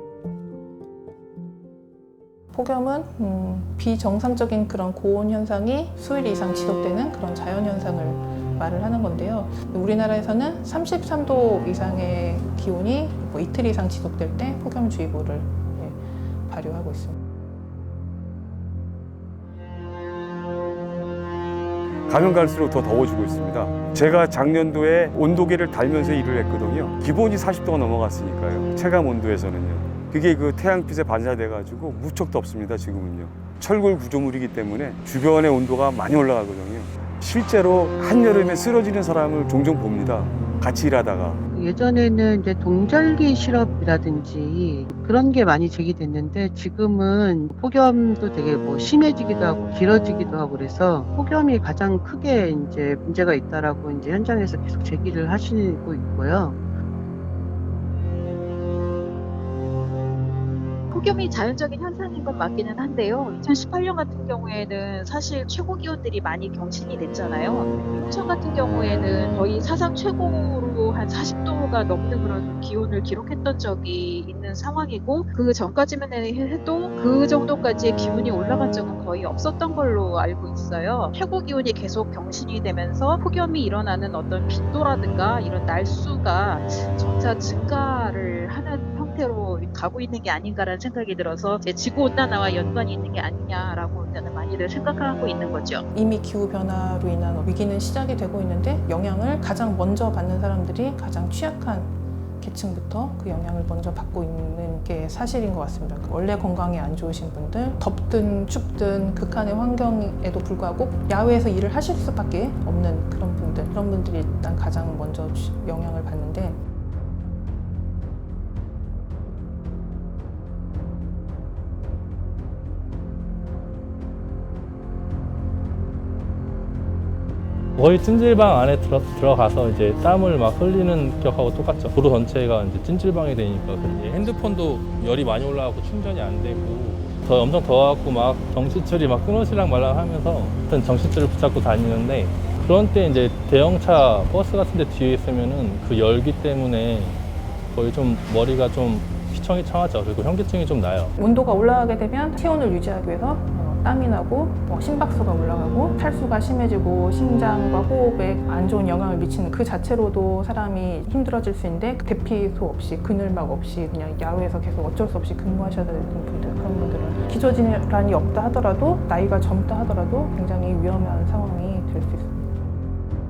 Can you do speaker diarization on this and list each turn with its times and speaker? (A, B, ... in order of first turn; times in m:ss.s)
0:02.5-0:17.1 A
0:22.1-0:41.4 B
0:41.5-0:56.6 C
1:00.9-1:35.8 D
1:35.9-1:56.6 A
2:07.8-2:31.1 E
2:31.2-2:52.4 A